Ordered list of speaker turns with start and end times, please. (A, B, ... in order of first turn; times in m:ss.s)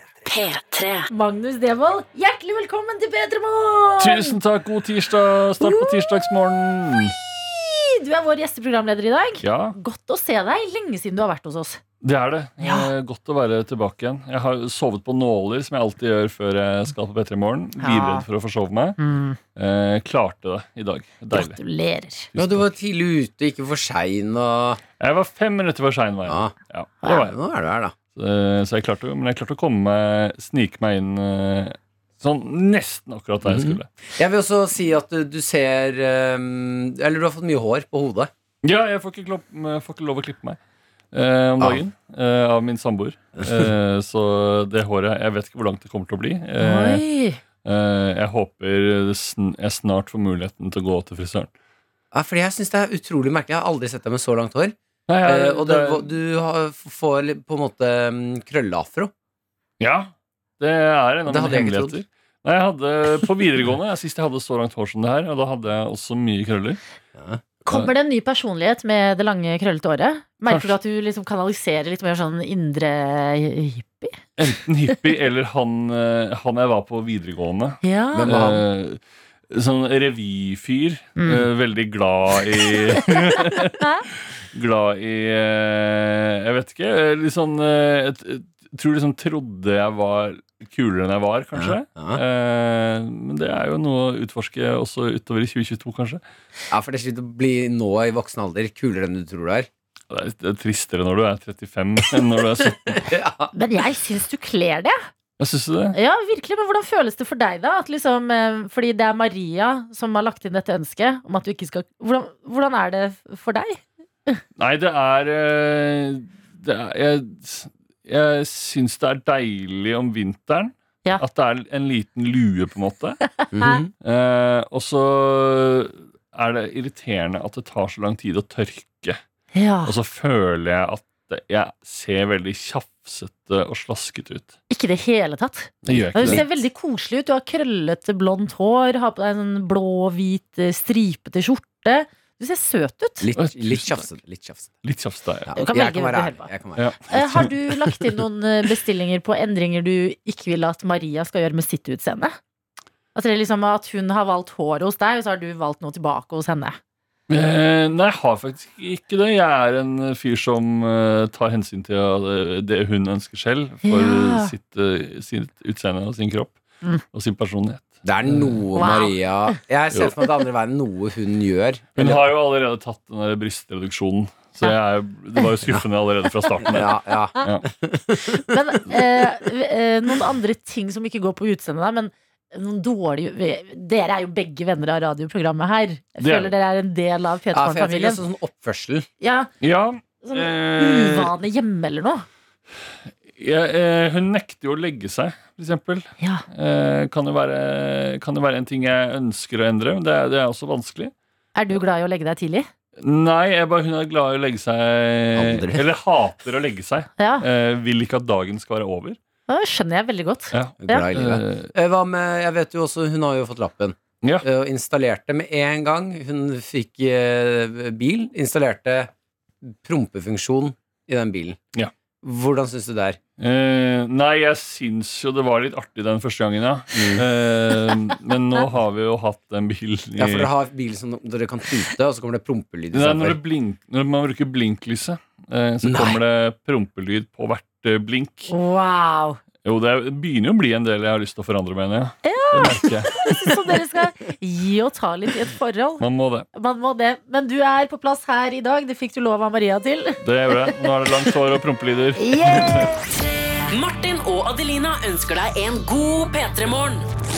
0:00.2-0:04.4 A
0:04.0-0:07.2 B
0:05.6-0:06.0 A
0:07.2-0:11.8 A
0:09.4-0:09.8 B
0:12.0-0:19.0 B
0:12.6-0:12.9 A
0:17.8-0:18.2 A
0:19.0-0:19.4 A
0:19.6-0:21.6 B
0:21.3-0:22.3 A
0:22.3-0:22.6 B
0:22.4-0:24.8 C
0:25.0-0:27.3 B
0:26.3-0:26.5 C
0:27.0-0:27.9 C
0:28.1-0:33.9 B
0:33.4-0:38.3 C
0:38.6-0:40.6 B
0:41.1-0:47.0 B
0:46.6-0:47.4 A
0:47.6-0:51.5 B
0:52.1-0:59.1 C
0:55.1-0:56.0 B
0:59.8-1:06.8 B
1:01.3-1:02.0 C
1:07.2-1:07.4 C
1:07.6-1:14.2 A
1:10.5-1:10.7 B
1:14.4-1:19.0 B
1:17.8-1:18.3 A
1:18.1-1:18.6 C
1:19.5-1:23.8 B
1:21.2-1:21.4 A
1:24.5-1:36.2 B
1:31.6-1:32.2 C
1:36.7-1:39.7 C
1:40.1-1:43.0 B
1:42.9-1:43.5 C
1:43.5-1:45.0 A
1:45.4-1:46.0 B
1:45.9-1:54.4 A
1:54.6-2:03.2 B
2:03.4-2:03.7 A
2:03.5-2:03.9 C
2:04.0-2:09.2 B
2:09.5-2:09.9 A
2:09.8-2:14.5 B
2:14.7-2:23.3 A
2:15.8-2:16.4 C
2:15.9-2:16.4 B
2:23.2-2:24.7 C
2:23.4-2:24.1 B
2:24.8-2:25.5 B
2:25.5-2:27.5 C
2:25.6-2:26.5 A
2:26.8-2:27.5 B
2:27.1-2:32.4 A
2:33.1-2:36.8 A
2:37.3-2:46.6 B
2:43.8-2:44.5 A
2:47.1-2:48.6 B
2:48.0-2:52.2 C
2:48.7-2:49.5 A
2:52.0-2:57.6 B
2:56.6-2:58.4 C
2:58.3-3:08.2 A
3:06.2-3:06.5 B
3:07.5-3:09.1 C
3:09.2-3:09.5 A
3:09.6-3:11.3 B
3:10.2-3:12.2 A
3:13.4-3:21.1 B
3:21.5-3:22.7 A
3:23.0-3:29.2 B
3:25.4-3:25.8 C
3:27.2-3:27.4 A
3:29.5-3:31.0 A
3:30.5-3:31.7 B
3:30.8-3:39.1 C
3:39.6-3:41.6 C
3:42.2-3:43.2 C
3:43.4-3:50.5 B
3:46.9-3:47.2 C
3:50.2-3:53.4 C
3:52.9-3:58.5 B
3:55.8-3:56.2 C
3:58.5-3:59.4 A
3:59.6-4:03.3 B
4:02.2-4:06.0 A
4:06.0-4:06.5 B
4:06.5-4:10.2 A
4:10.2-4:12.9 B
4:12.2-4:13.0 A
4:13.7-4:17.0 D